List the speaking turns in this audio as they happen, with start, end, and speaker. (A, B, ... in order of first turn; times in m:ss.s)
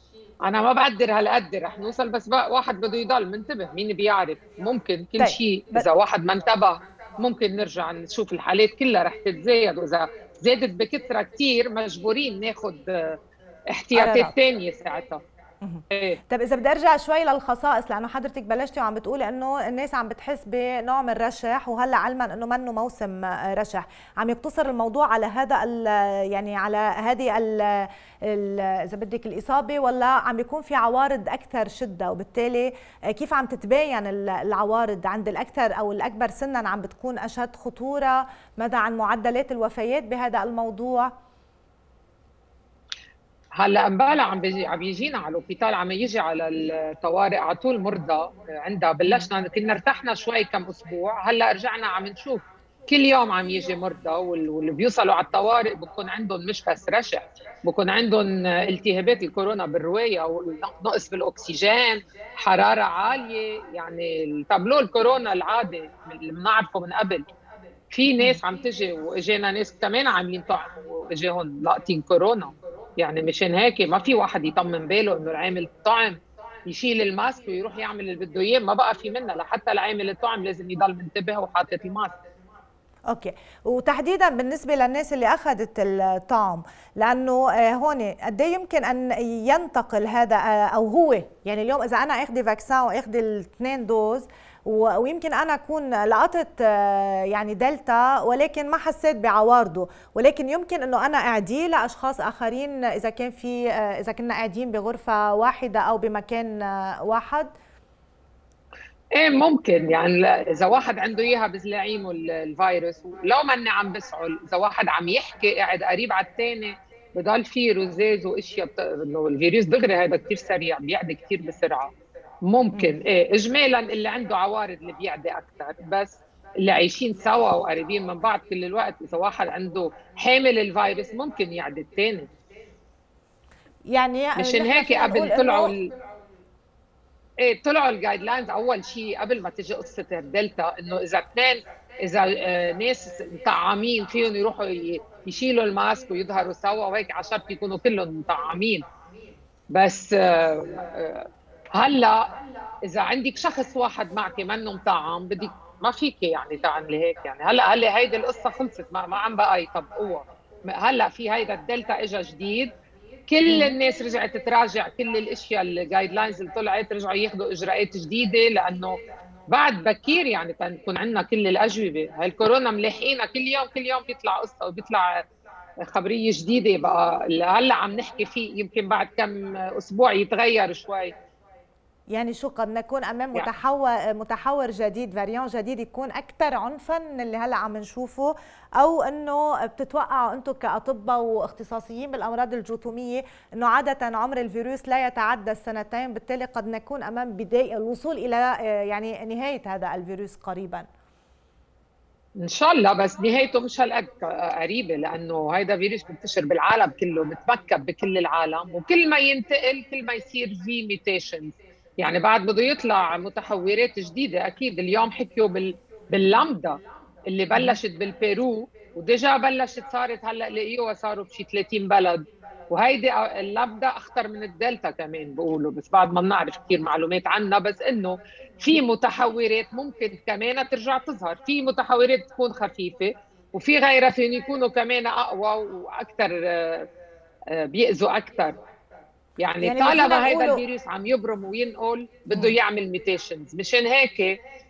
0:00.4-0:13.2 A
0:05.2-0:05.8 B
0:13.7-0:15.2 A
0:13.9-0:14.3 B
0:15.6-0:41.1 B
0:15.9-0:16.2 A
0:43.6-1:07.2 A
1:07.9-1:22.1 A
1:23.1-1:47.5 B
1:49.1-2:01.9 A
2:02.5-2:12.3 A
2:13.9-2:15.7 B
2:14.4-2:15.8 A
2:17.4-2:28.8 A
2:29.7-2:32.2 A
2:32.8-2:42.7 A
2:43.3-2:49.0 A
2:49.5-2:55.2 A
2:55.8-3:01.1 A
3:02.1-3:20.8 B
3:22.4-3:56.9 A
3:57.5-3:58.6 A
3:59.4-4:04.4 A
3:59.6-4:00.6 B